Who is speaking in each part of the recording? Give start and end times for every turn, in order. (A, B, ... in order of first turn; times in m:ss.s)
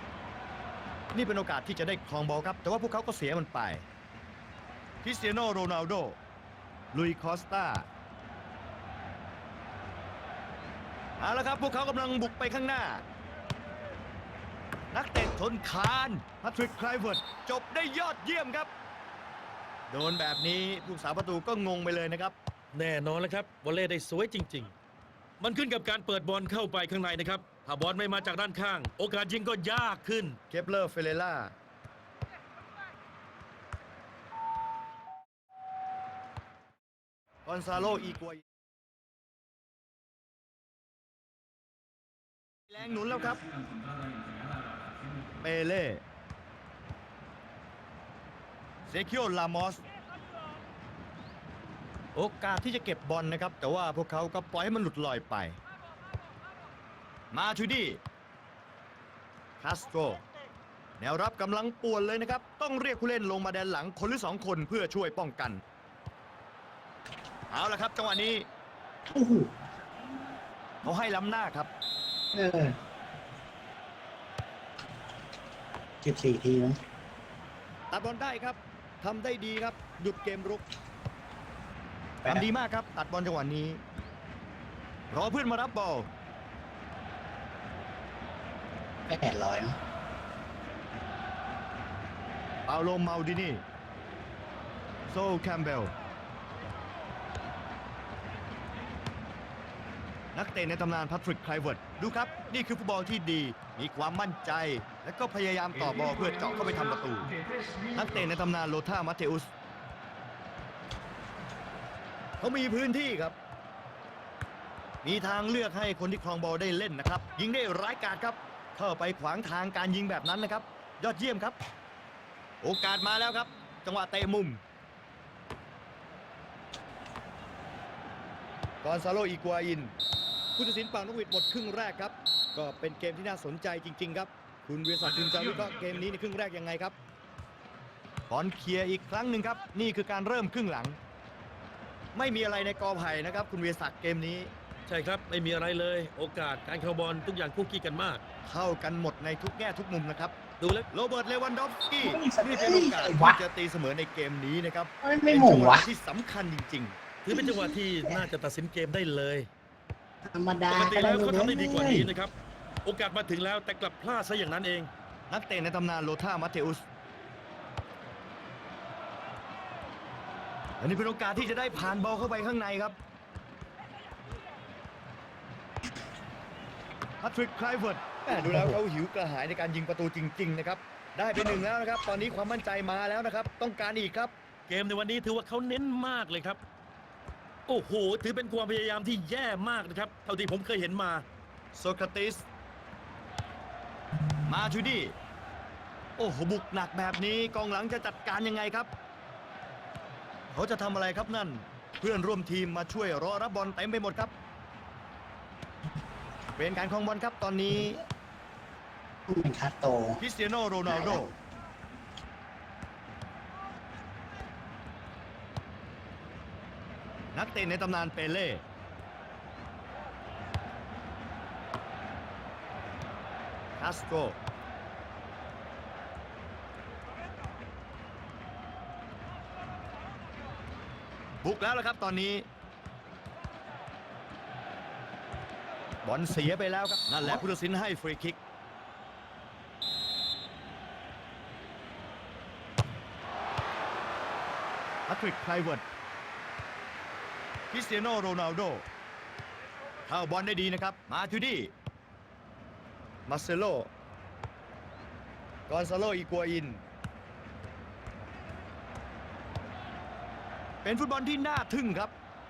0:01.1-0:03.8 A
0:05.0-0:06.2 A
0:06.9-0:07.9 A
0:11.2-0:13.0 A
0:14.9-0:18.7 A
0:19.9-0:22.3 A
0:22.7-0:24.7 B
0:25.4-0:30.4 B
0:30.5-0:31.5 A
0:37.4-0:38.4 A
0:42.7-0:43.4 A
0:45.4-0:46.0 A
0:48.9-0:49.8 A
0:52.1-0:55.6 A
0:57.3-0:58.0 A
0:59.6-1:00.2 A
1:01.0-1:05.6 A
1:07.5-1:08.5 A
1:09.1-1:09.5 C
1:10.8-1:11.7 A
1:12.3-1:12.8 C
1:16.0-1:16.8 C
1:17.9-1:20.6 A
1:22.2-1:23.8 A
1:25.1-1:26.1 A
1:29.1-1:29.8 C
1:32.7-1:33.6 A
1:35.1-1:35.9 A
1:40.3-1:47.3 A
1:47.8-1:49.5 A
1:52.4-1:53.4 A
1:55.0-2:01.6 A
2:02.6-2:04.6 A
2:08.8-2:09.9 A
2:10.6-2:17.0 A
2:18.3-2:21.0 A
2:22.1-2:24.5 A
2:24.9-2:28.2 B
2:28.4-2:30.3 A
2:30.6-2:30.8 B
2:30.9-2:37.0 A
2:32.0-2:33.4 C
2:35.0-2:35.9 C
2:37.2-2:39.5 B
2:37.3-2:38.3 C
2:40.3-2:42.1 C
2:40.7-2:42.3 B
2:42.8-2:44.9 B
2:45.3-2:46.8 A
2:50.8-2:53.0 A
2:57.2-3:04.3 A
2:58.3-2:58.8 C
3:04.7-3:06.6 B
3:07.7-3:11.2 B
3:11.7-3:12.4 A
3:14.4-3:15.1 A
3:16.2-3:18.9 A
3:20.5-3:24.3 A
3:26.6-3:28.0 A
3:29.3-3:30.2 C
3:30.2-3:31.3 A
3:30.8-3:31.3 C
3:37.3-3:38.6 A
3:43.8-3:44.4 A
3:51.4-3:52.5 A
3:56.0-3:58.4 A
4:05.1-4:05.8 A
4:07.7-4:08.8 A
4:10.1-4:11.7 A
4:13.3-4:13.9 A
4:15.7-4:16.8 A
4:20.8-4:22.1 A